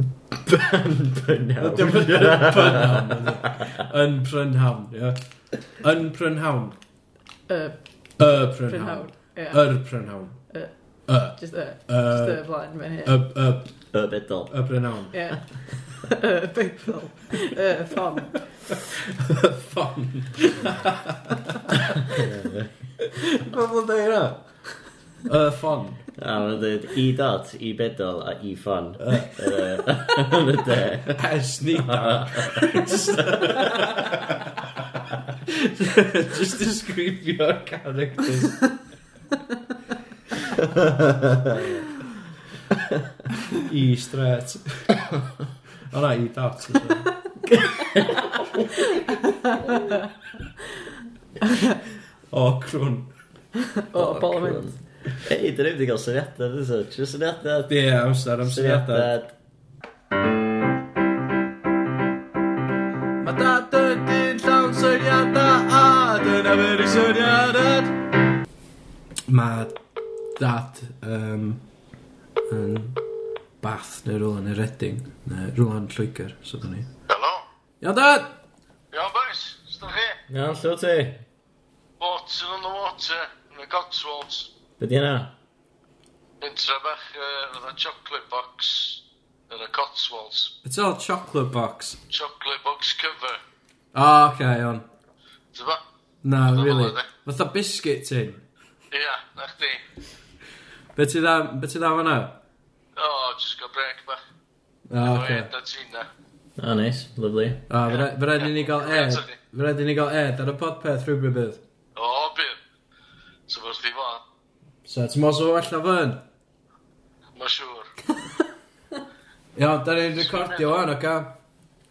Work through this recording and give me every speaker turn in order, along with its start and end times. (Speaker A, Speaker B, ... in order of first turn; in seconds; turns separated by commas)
Speaker A: 0.5-3.8, Speaker B: 1.6-6.8, Speaker C: 7.5-9.8, Speaker B: 8.2-10.4, Speaker C: 10.5-13.2, Speaker B: 11.1-12.4, Speaker B: 13.0-13.9, Speaker A: 13.9-14.6, Speaker B: 14.5-15.2, Speaker C: 15.1-18.5, Speaker B: 18.7-22.2, Speaker A: 22.1-22.9, Speaker B: 23.2-26.0, Speaker A: 26.2-31.2, Speaker B: 29.0-29.8, Speaker B: 31.1-34.6, Speaker A: 31.8-34.1, Speaker B: 35.5-38.7, Speaker A: 40.8-41.7, Speaker B: 43.5-45.0, Speaker B: 45.9-47.1, Speaker A: 47.5-48.4, Speaker C: 48.9-49.9, Speaker B: 52.3-53.1, Speaker C: 53.9-54.8, Speaker A: 53.9-57.8, Speaker B: 57.7-59.1, Speaker A: 58.4-59.3, Speaker B: 63.2-68.0, Speaker B: 69.3-69.8, Speaker B: 70.3-71.6, Speaker B: 72.5-73.0, Speaker B: 73.6-76.9, Speaker D: 77.1-77.5, Speaker B: 77.8-78.3, Speaker D: 78.9-80.2, Speaker A: 80.3-81.2, Speaker D: 82.0-84.5, Speaker A: 84.8-85.3, Speaker D: 86.4-90.5, Speaker B: 90.6-92.0, Speaker D: 92.1-93.4, Speaker B: 93.9-94.8, Speaker D: 95.5-95.8, Speaker B: 96.2-98.4, Speaker D: 96.5-97.1, Speaker D: 98.9-99.8, Speaker B: 100.9-102.3, Speaker D: 103.0-104.2, Speaker B: 104.9-105.5, Speaker D: 105.0-106.1, Speaker A: 106.6-107.7, Speaker B: 107.7-111.6, Speaker D: 107.9-109.4, Speaker D: 112.0-112.6, Speaker D: 113.5-114.2, Speaker B: 114.8-116.2, Speaker D: 117.3-117.9, Speaker B: 119.5-121.3, Speaker D: 120.2-120.8